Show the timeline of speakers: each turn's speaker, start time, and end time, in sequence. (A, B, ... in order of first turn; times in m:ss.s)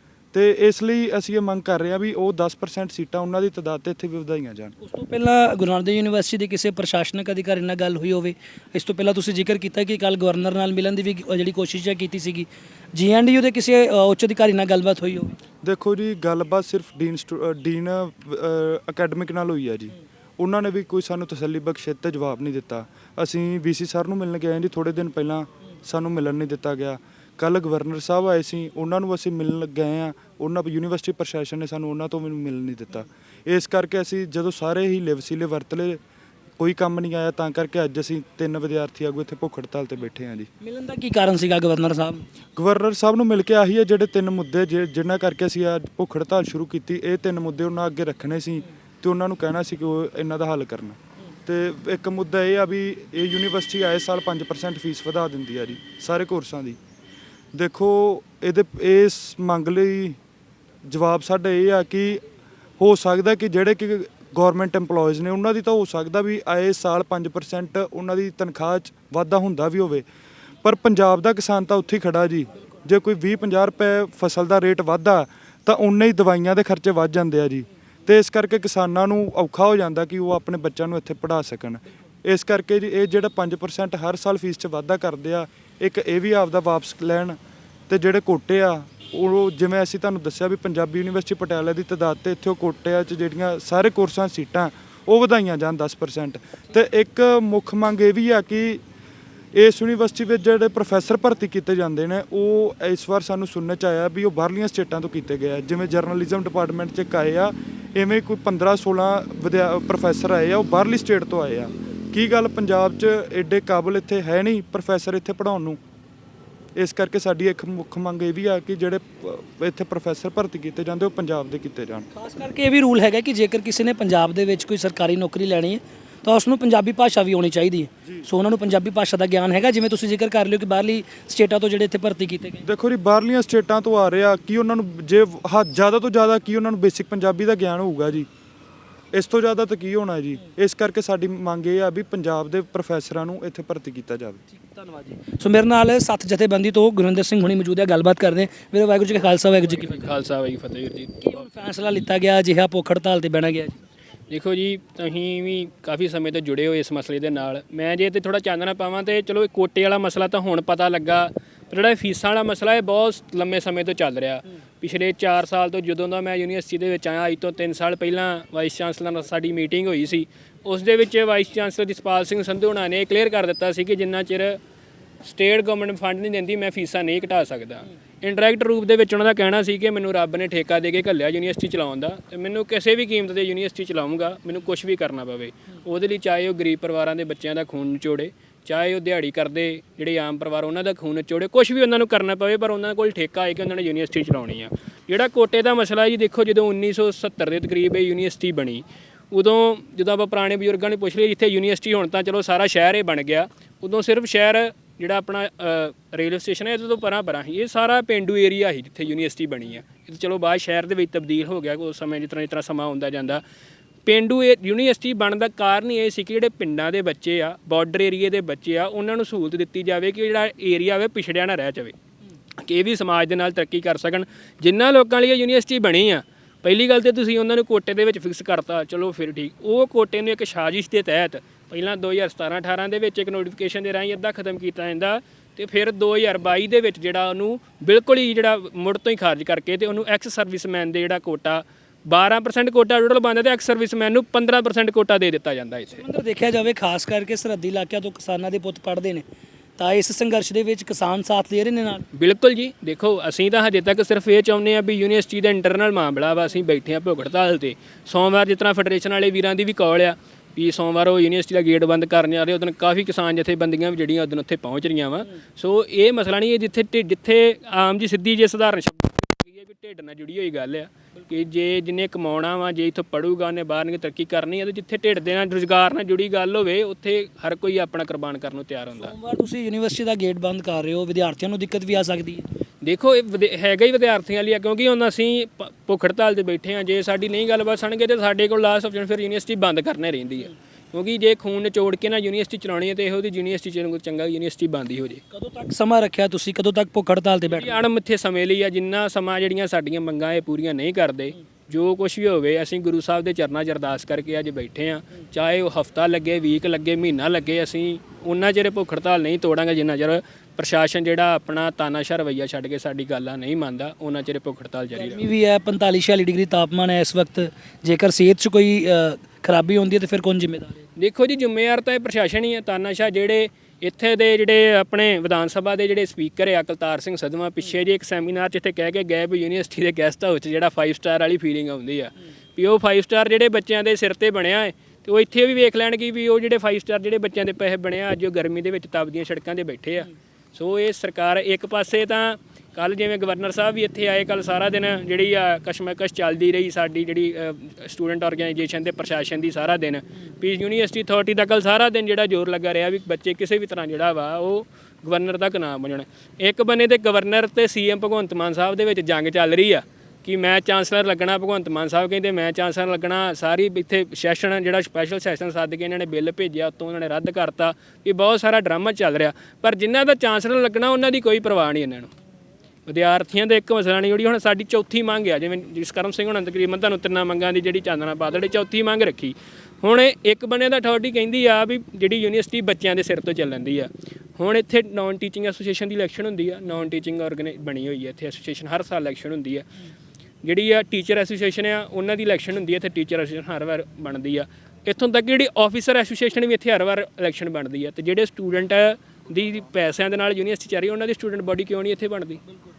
0:00.3-0:04.8 A
0:04.8-0:15.3 B
0:15.6-0:36.0 A
0:36.6-0:40.5 A
0:40.6-0:42.3 B
0:42.6-0:56.8 A
0:57.5-1:00.2 A
1:00.8-1:02.2 A
1:02.8-1:10.1 A
1:10.6-1:38.8 A
1:39.6-1:55.8 A
1:56.8-2:02.1 A
2:02.2-2:12.6 B
2:12.6-2:18.3 A
2:19.1-2:24.4 A
2:24.6-2:30.1 B
2:29.6-2:31.3 C
2:31.2-2:33.8 B
2:34.3-2:54.6 C
2:55.2-3:33.4 C
3:34.0-3:42.0 C
3:42.6-4:06.0 C
4:06.0-4:09.2 B
4:09.8-4:12.0 B
4:12.1-4:39.1 C
4:39.0-4:42.5 B
4:42.8-4:55.2 C
4:55.3-4:57.8 B
4:57.5-5:15.2 C
5:15.0-5:20.8 B
5:21.0-6:12.1 C
6:12.9-6:29.7 C
6:30.4-6:42.4 C